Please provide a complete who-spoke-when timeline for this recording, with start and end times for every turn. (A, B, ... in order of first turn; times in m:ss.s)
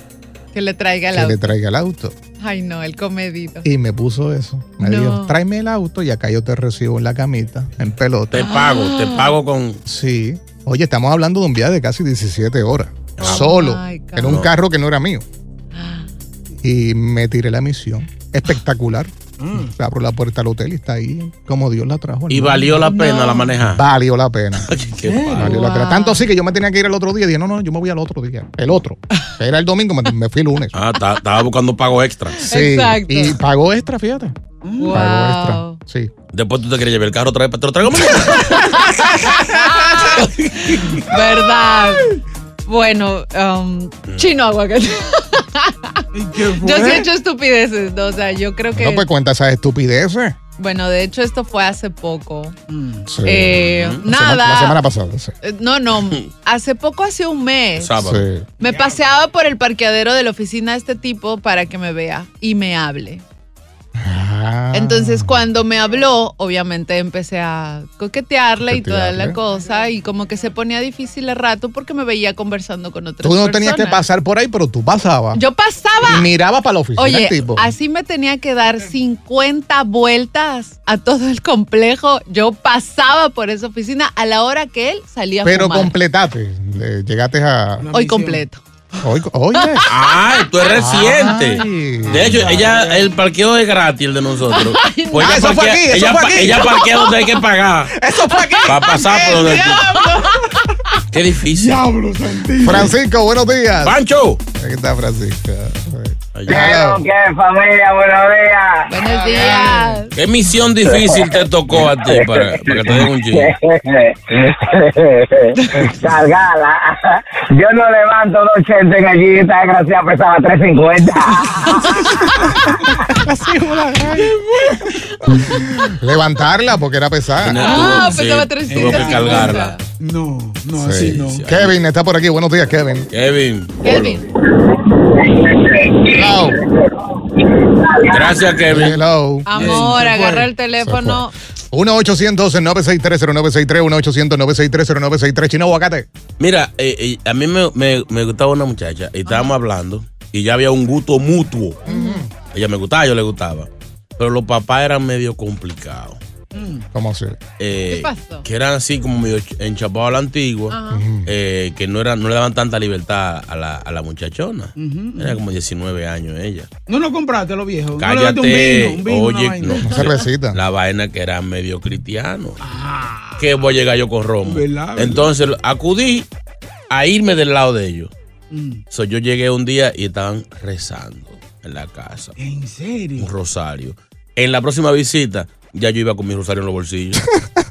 0:00.5-0:01.4 A
0:01.1-0:02.1 B
0:02.4-0:03.7 A
0:03.6-0:08.4 B
0:04.8-0:05.4 A
0:08.3-0:09.8 C
0:08.4-0:09.3 A
0:09.8-0:15.2 B
0:13.2-0:13.5 C
0:13.2-0:14.4 A
0:14.2-0:14.5 C
0:15.7-0:16.1 A
0:16.6-0:22.7 B
0:19.4-0:19.7 D
0:22.3-0:23.8 C
0:22.8-0:23.5 A
0:23.6-0:24.7 B
0:24.6-0:25.5 C
0:24.9-0:25.5 D
0:25.4-0:30.7 B
0:25.4-0:26.3 A
0:30.7-0:32.4 C
0:32.4-0:34.3 B
0:32.4-0:33.4 A
0:34.6-0:35.0 D
0:34.8-0:35.8 A
0:34.9-0:36.1 B
0:36.3-0:38.8 C
0:38.3-0:49.0 A
0:40.1-0:41.1 C
0:44.0-0:44.3 C
0:46.1-0:47.1 D
0:48.7-0:50.4 B
0:50.6-0:52.5 A
0:52.7-0:53.1 D
0:53.1-0:55.3 B
0:53.2-0:54.8 A
0:53.5-0:54.0 C
0:55.4-0:57.9 A
0:56.0-0:56.3 C
0:57.8-0:58.2 C
0:58.0-0:58.5 B
0:58.6-1:03.2 A
1:04.0-1:05.4 B
1:04.7-1:14.0 A
1:08.6-1:09.4 B
1:13.2-1:15.4 B
1:15.3-1:16.3 A
1:16.0-1:17.7 B
1:17.0-1:25.9 A
1:25.4-1:27.9 B
1:27.8-1:28.4 D
1:27.9-1:29.0 A
1:29.0-1:29.9 B
1:29.5-1:31.4 A
1:29.9-1:37.9 C
1:30.7-1:32.6 B
1:32.1-1:33.1 D
1:34.5-1:35.5 A
1:35.1-1:36.9 B
1:36.8-1:37.2 A
1:37.9-1:39.8 B
1:38.3-1:38.7 A
1:38.6-1:39.9 C
1:39.2-1:40.5 D
1:39.6-1:40.6 A
1:41.1-1:41.9 C
1:41.5-1:43.0 D
1:42.6-1:44.0 B
1:43.8-1:44.4 C
1:44.6-1:47.0 B
1:46.3-1:46.7 C
1:46.5-1:48.9 E
1:48.9-1:50.1 A
1:49.0-1:49.7 B
1:49.3-1:49.9 D
1:50.1-1:53.5 C
1:50.8-2:02.2 E
1:55.6-1:55.9 A
2:01.8-2:02.5 A
2:03.1-2:04.3 B
2:04.1-2:05.9 D
2:05.9-2:07.6 B
2:07.4-2:09.8 C
2:07.6-2:09.8 A
2:07.7-2:11.5 D
2:10.8-2:13.1 B
2:11.0-2:11.8 C
2:13.1-2:14.2 C
2:13.8-2:14.2 A
2:15.0-2:18.5 E
2:16.1-2:16.6 B
2:18.1-2:19.0 C
2:18.7-2:19.5 B
2:19.4-2:21.3 A
2:19.5-2:20.5 D
2:19.6-2:19.9 C
2:20.8-2:26.1 B
2:26.4-2:31.8 C
2:29.3-2:29.5 A
2:31.8-2:32.3 B
2:31.9-2:32.2 A
2:32.5-2:36.2 C
2:36.5-2:36.9 D
2:36.9-2:37.4 B
2:37.6-2:46.7 C
2:37.9-2:38.4 A
2:40.7-2:41.0 A
2:40.9-2:41.3 B
2:44.8-2:45.4 D
2:46.9-2:49.9 D
2:47.9-2:52.6 C
2:49.7-2:50.6 B
2:52.6-2:53.6 D
2:53.4-2:56.3 C
2:54.4-2:55.3 D
2:56.9-2:58.1 C
2:58.5-2:58.8 D
2:58.9-3:02.3 C
3:02.4-3:03.3 D
3:03.2-3:07.2 C